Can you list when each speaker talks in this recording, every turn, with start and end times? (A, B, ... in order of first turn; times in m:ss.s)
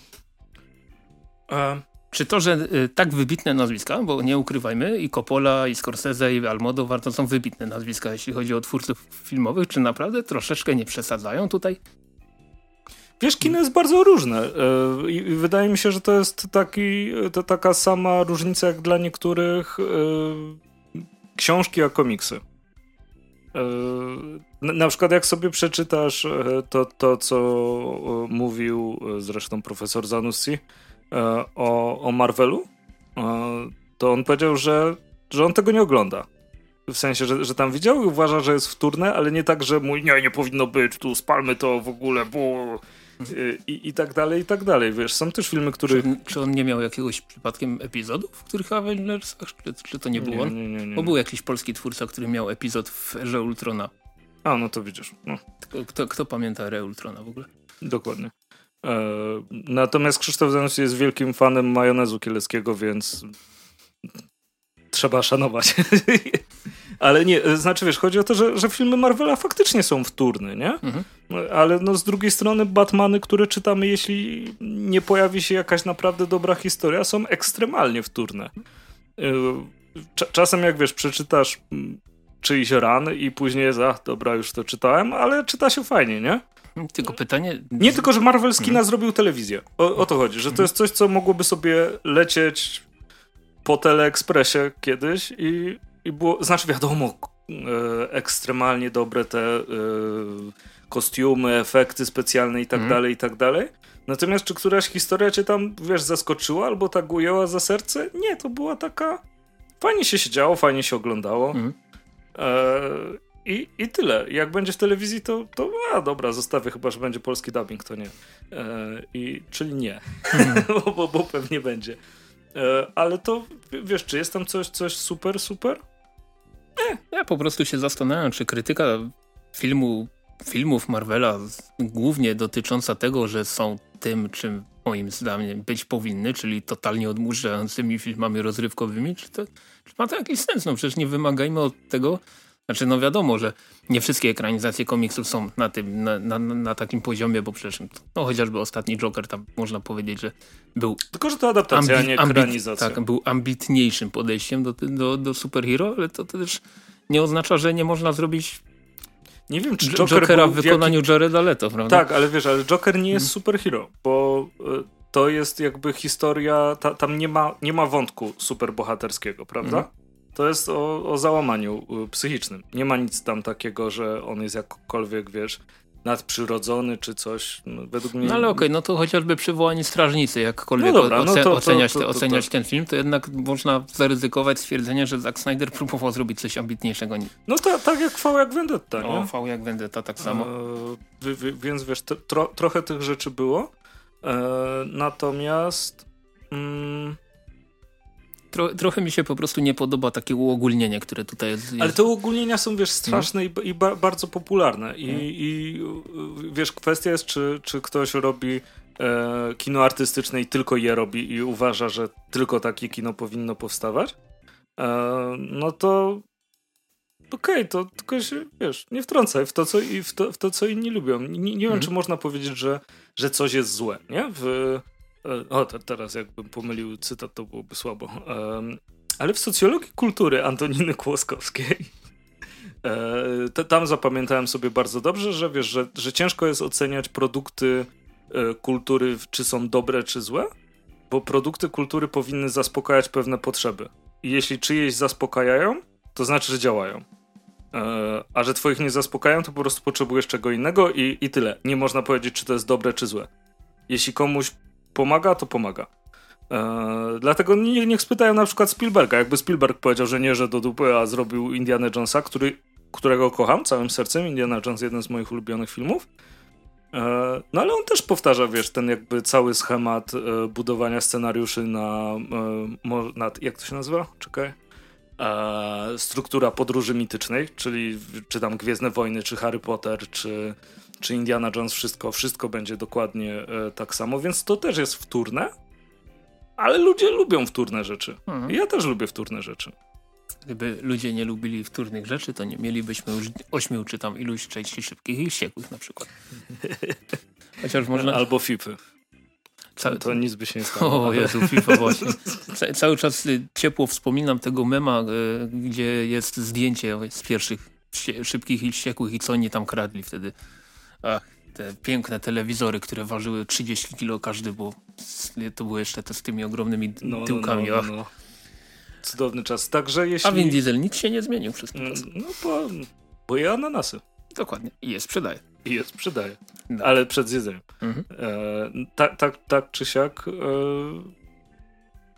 0:01.5-0:01.8 A
0:02.1-0:11.8 B
0:13.2-0:20.6 A
0:21.4-0:22.4 A
0:23.5-0:36.3 A
0:36.9-0:46.1 A
0:45.9-0:53.9 B
0:50.2-0:51.2 A
0:54.4-0:55.4 A
0:55.6-0:57.5 B
0:57.8-1:03.3 A
1:04.9-1:06.4 A
1:07.0-1:18.5 A
1:19.2-1:26.4 A
1:26.8-1:28.1 B
1:27.8-1:32.8 A
1:33.6-1:49.2 A
1:49.8-1:51.6 A
1:52.4-2:02.0 A
2:00.3-2:00.6 B
2:02.5-2:05.8 A
2:07.1-2:31.0 B
2:31.1-2:33.0 A
2:31.7-2:38.6 B
2:39.5-2:41.0 A
2:39.8-2:42.0 B
2:41.9-2:58.6 A
2:58.2-3:07.3 B
3:00.8-3:02.5 A
3:07.5-3:09.3 A
3:09.0-3:10.5 B
3:10.2-3:13.7 A
3:14.2-3:17.2 A
3:18.5-3:22.0 B
3:21.8-3:34.1 A
3:34.8-3:36.2 A
3:37.3-3:51.9 A
3:52.8-4:00.5 A
4:01.1-4:07.0 A
4:07.7-4:13.3 A
4:13.9-4:15.9 A
4:16.5-4:26.0 A
4:26.9-4:34.6 A
4:35.2-4:45.5 A
4:46.6-4:49.7 A
4:48.3-4:48.6 B
4:50.4-4:56.1 B
4:56.6-4:57.0 A
4:57.6-4:58.2 B
4:57.9-4:58.8 A
4:59.8-5:00.2 B
4:59.9-5:02.3 A
5:00.7-5:10.3 B
5:11.0-5:17.9 B
5:17.0-5:18.1 A
5:19.0-5:20.6 A
5:20.2-5:22.0 B
5:21.7-5:24.0 A
5:24.3-5:25.4 B
5:25.6-5:31.1 A